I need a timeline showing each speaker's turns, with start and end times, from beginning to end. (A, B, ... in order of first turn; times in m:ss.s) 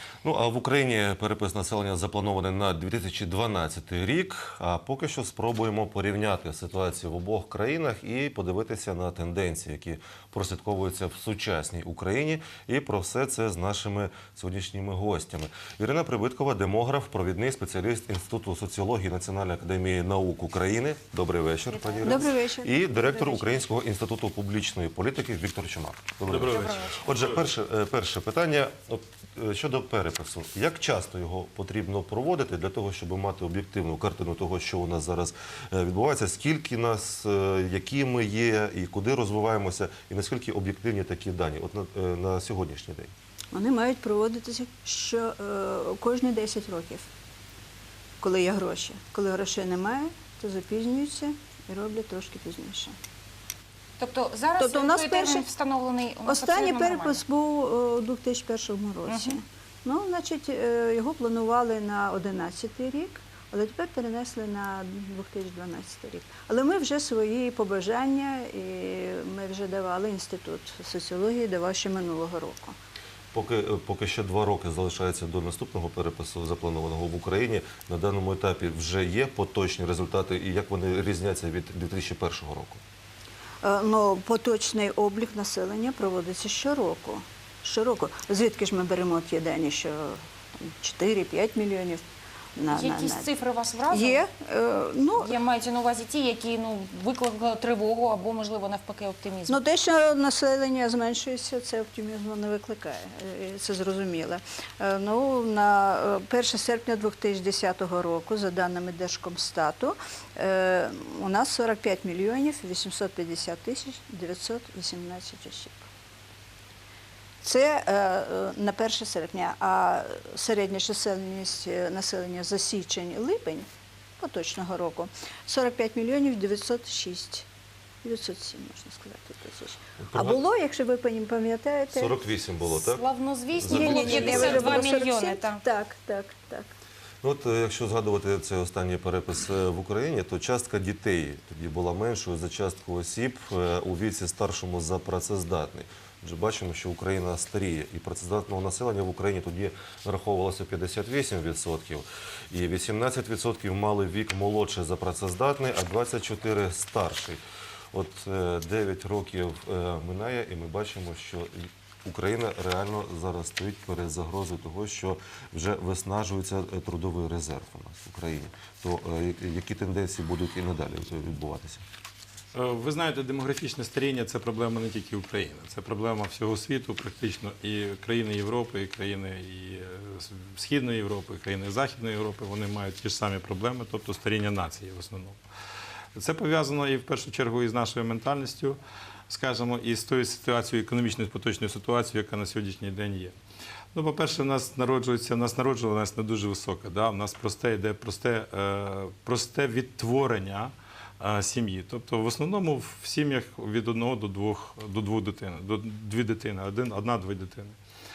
0:00.2-0:43.1 A
0:21.7-0:22.3 B
0:22.0-0:23.4 C
0:26.3-0:27.2 D
0:26.5-0:27.1 B
0:43.5-0:47.1 C
0:48.2-0:53.0 C
0:54.0-0:57.2 B
0:54.6-0:55.5 C
0:56.3-1:12.8 C
0:59.1-0:59.4 B
1:13.3-1:22.8 A
1:23.6-1:32.0 C
1:32.6-1:33.3 C
1:32.7-1:34.2 B
1:33.9-1:35.3 C
1:35.2-1:39.6 B
1:39.5-1:55.9 C
1:57.4-2:03.7 C
2:04.2-2:07.5 C
2:08.0-2:12.2 C
2:10.0-2:10.4 A
2:11.9-2:14.9 A
2:12.7-2:15.6 B
2:13.7-2:16.7 C
2:17.2-2:37.4 A
2:37.9-2:51.8 A
2:52.5-3:05.4 D
3:06.2-3:13.4 D
3:13.9-3:27.8 D